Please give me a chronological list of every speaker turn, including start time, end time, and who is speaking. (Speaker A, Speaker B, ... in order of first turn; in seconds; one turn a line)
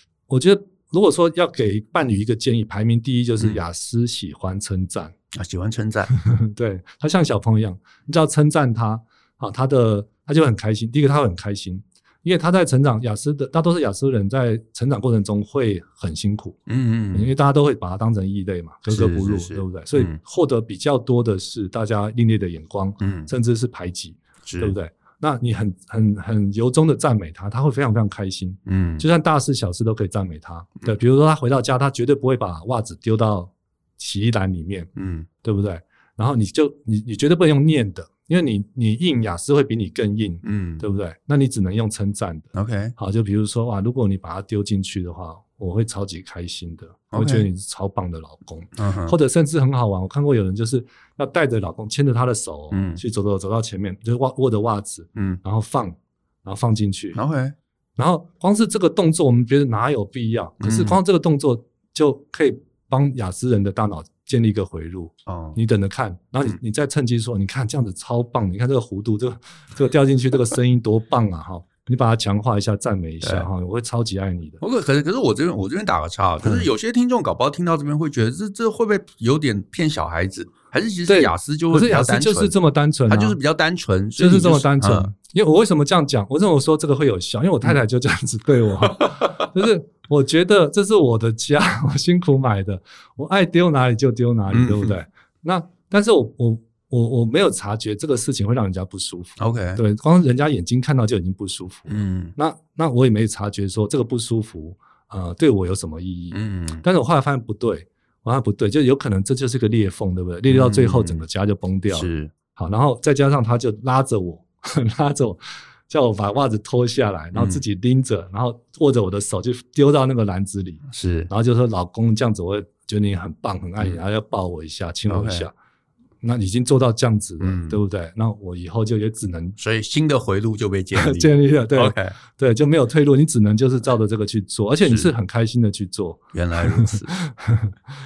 Speaker A: 0.3-5.1
Speaker B: 5.3-6.1
Speaker A: 6.1-16.6
Speaker B: 16.7-17.3
Speaker A: 17.1-34.9
Speaker B: 18.9-20.2
Speaker B: 23.0-23.3
Speaker B: 24.4-24.7
Speaker B: 28.6-29.0
Speaker B: 35.0-35.3
Speaker A: 35.4-57.2
Speaker B: 40.4-40.8
Speaker B: 42.5-42.9
Speaker B: 47.1-47.5
Speaker B: 48.8-49.1
Speaker B: 52.7-53.0
Speaker B: 55.1-55.4
Speaker B: 57.1-57.5
Speaker A: 58.0-74.6
Speaker B: 60.6-61.0
Speaker B: 65.3-65.6
Speaker B: 73.2-73.5
Speaker B: 74.6-82.5
Speaker A: 81.1-83.4
Speaker B: 83.1-85.1
Speaker A: 84.2-125.5
Speaker B: 88.9-89.5
Speaker B: 94.5-94.9
Speaker B: 99.4-99.8
Speaker B: 101.9-102.3
Speaker B: 106.3-106.8
Speaker B: 110.5-111.2
Speaker B: 111.9-112.3
Speaker B: 117.3-117.6
Speaker B: 120.9-121.3
Speaker B: 125.1-125.5
Speaker A: 126.2-129.6
Speaker B: 127.4-127.8
Speaker B: 129.6-132.2
Speaker A: 130.9-137.7
Speaker B: 134.8-135.1
Speaker B: 136.3-137.1